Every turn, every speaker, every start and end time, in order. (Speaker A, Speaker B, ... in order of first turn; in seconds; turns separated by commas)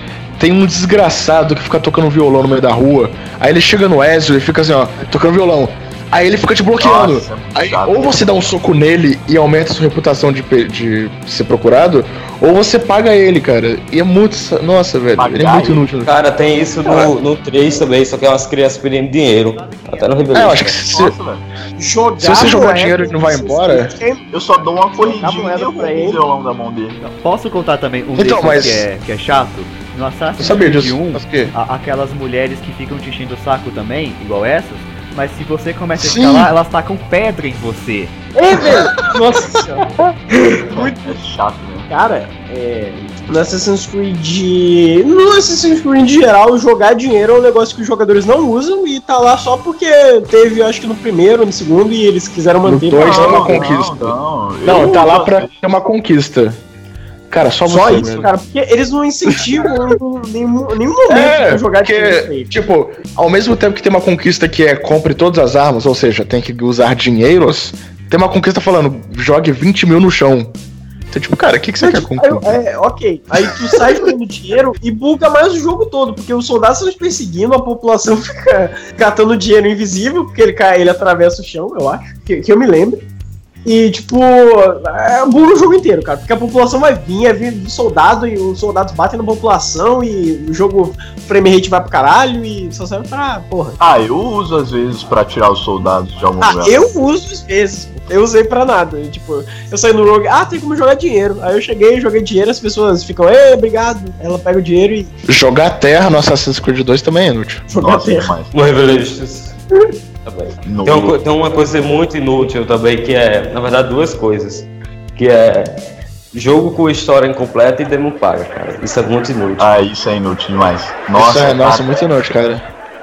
Speaker A: 0.4-16.1, Speaker B: 6.8-8.4, Speaker B: 15.2-15.8, Speaker C: 16.1-20.8, Speaker A: 16.9-17.1, Speaker A: 20.3-21.1, Speaker B: 20.9-21.4, Speaker D: 21.8-24.3, Speaker A: 22.2-23.9, Speaker B: 24.3-27.0, Speaker D: 25.0-26.2, Speaker E: 27.0-38.1, Speaker A: 28.2-28.9, Speaker A: 30.4-31.5, Speaker A: 36.0-36.5, Speaker D: 38.4-40.0, Speaker A: 38.6-39.2, Speaker B: 40.7-41.9, Speaker D: 40.7-41.1, Speaker D: 41.9-53.7, Speaker A: 52.6-56.6, Speaker B: 53.0-55.5, Speaker A: 57.3-58.3, Speaker D: 57.6-62.5, Speaker A: 61.1-70.5, Speaker A: 71.1-72.6, Speaker D: 71.8-83.0, Speaker D: 83.7-93.8, Speaker B: 93.8-96.9, Speaker D: 96.4-105.1, Speaker A: 105.3-107.7, Speaker D: 107.7-108.3, Speaker B: 107.8-108.5, Speaker C: 108.5-109.6, Speaker C: 110.2-115.8, Speaker B: 110.7-111.2, Speaker C: 116.3-119.7, Speaker B: 119.6-121.9, Speaker A: 121.2-122.6